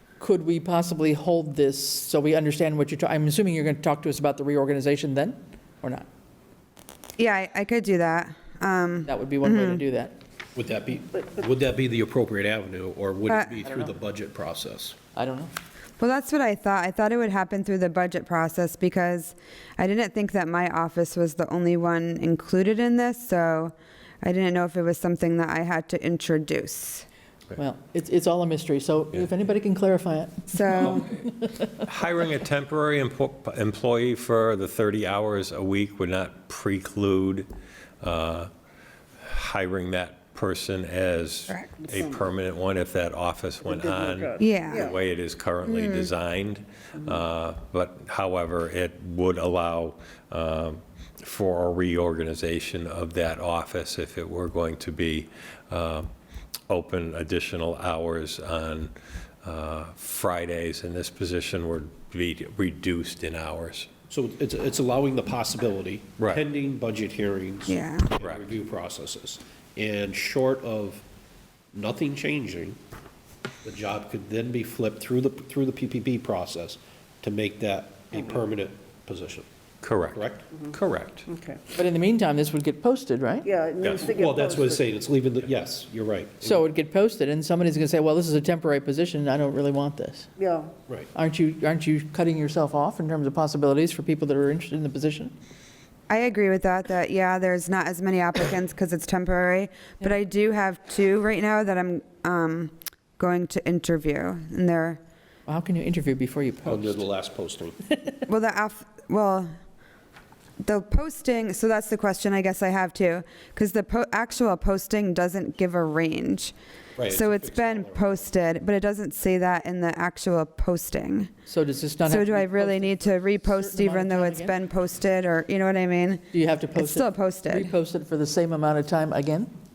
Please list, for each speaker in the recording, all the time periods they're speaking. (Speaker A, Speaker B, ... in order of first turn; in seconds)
Speaker A: 0.2-6.1, 9.1-10.2, 13.6-13.9, 15.2-15.5, 27.6-31.6, 81.7-83.5, 86.4-90.3, 91.1-95.3, 105.5-107.0, 121.5-124.6, 126.3-129.5
Speaker B: 7.2-9.8, 13.3-13.5, 16.0-27.1, 30.5-31.1, 44.4-44.9, 45.7-46.1, 67.7-68.1, 96.1-105.0, 108.3-109.5, 110.6-116.5, 117.1-121.3, 122.1-126.2, 126.8-127.7
Speaker C: 10.6-15.0, 64.1-71.0, 71.7-72.8, 73.6-79.5, 80.1-80.5, 83.8-86.6, 106.7-107.8, 117.0-118.3
Speaker D: 31.8-37.5, 38.0-38.5, 39.2-56.1, 56.7-58.9, 59.4-63.9, 68.2-68.5, 79.8-81.3
Speaker E: 41.8-42.3, 43.6-45.0, 81.3-81.6, 83.4-84.9, 90.4-90.7